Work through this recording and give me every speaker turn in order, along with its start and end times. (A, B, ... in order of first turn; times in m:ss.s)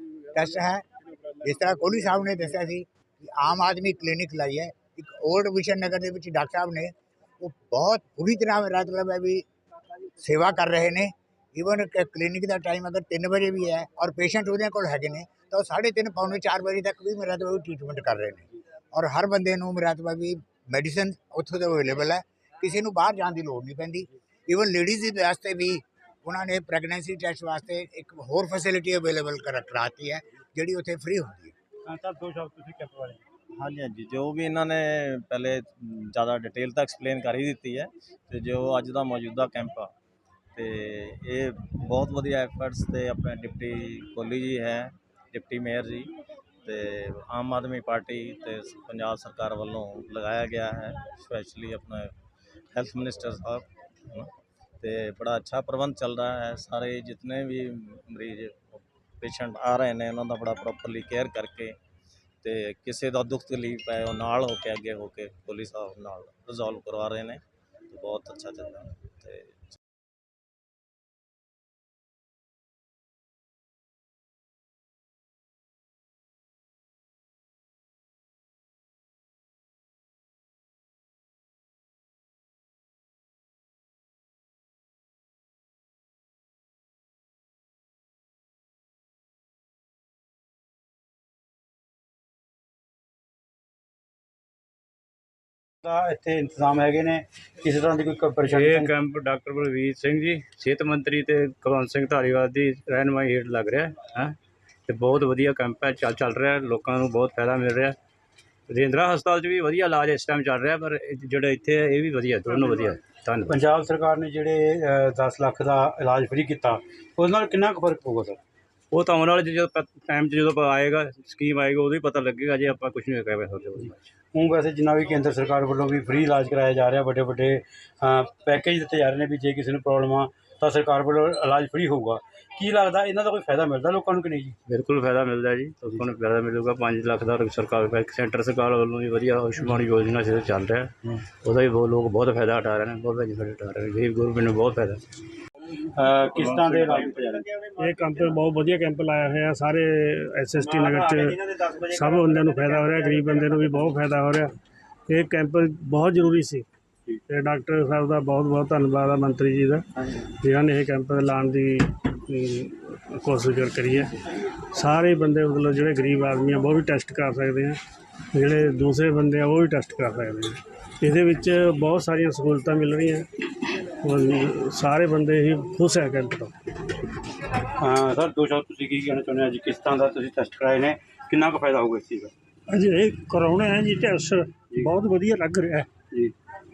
0:00.3-0:00.8 A
0:01.4-0:09.4 A
0:10.2-0:31.5 A
0:31.9-0:33.2 B
0:33.6-0:39.9 C
0:40.6-0:46.1 C
0:46.6-0:52.1 C
0:52.7-1:01.8 C
1:02.4-1:09.8 C
1:35.8-1:38.9 B
1:38.5-1:44.4 D
1:44.9-1:48.0 D
1:48.7-1:53.6 D
1:53.5-1:58.4 B
1:58.9-2:04.0 D
2:04.3-2:14.6 B
2:14.7-2:25.0 D
2:26.0-2:27.6 B
2:26.3-2:27.1 E
2:27.8-2:34.6 E
2:35.1-2:36.7 E
2:37.3-2:47.8 E
2:48.3-2:53.3 E
2:53.8-2:56.6 E
2:57.8-3:02.3 B
3:02.7-3:05.9 E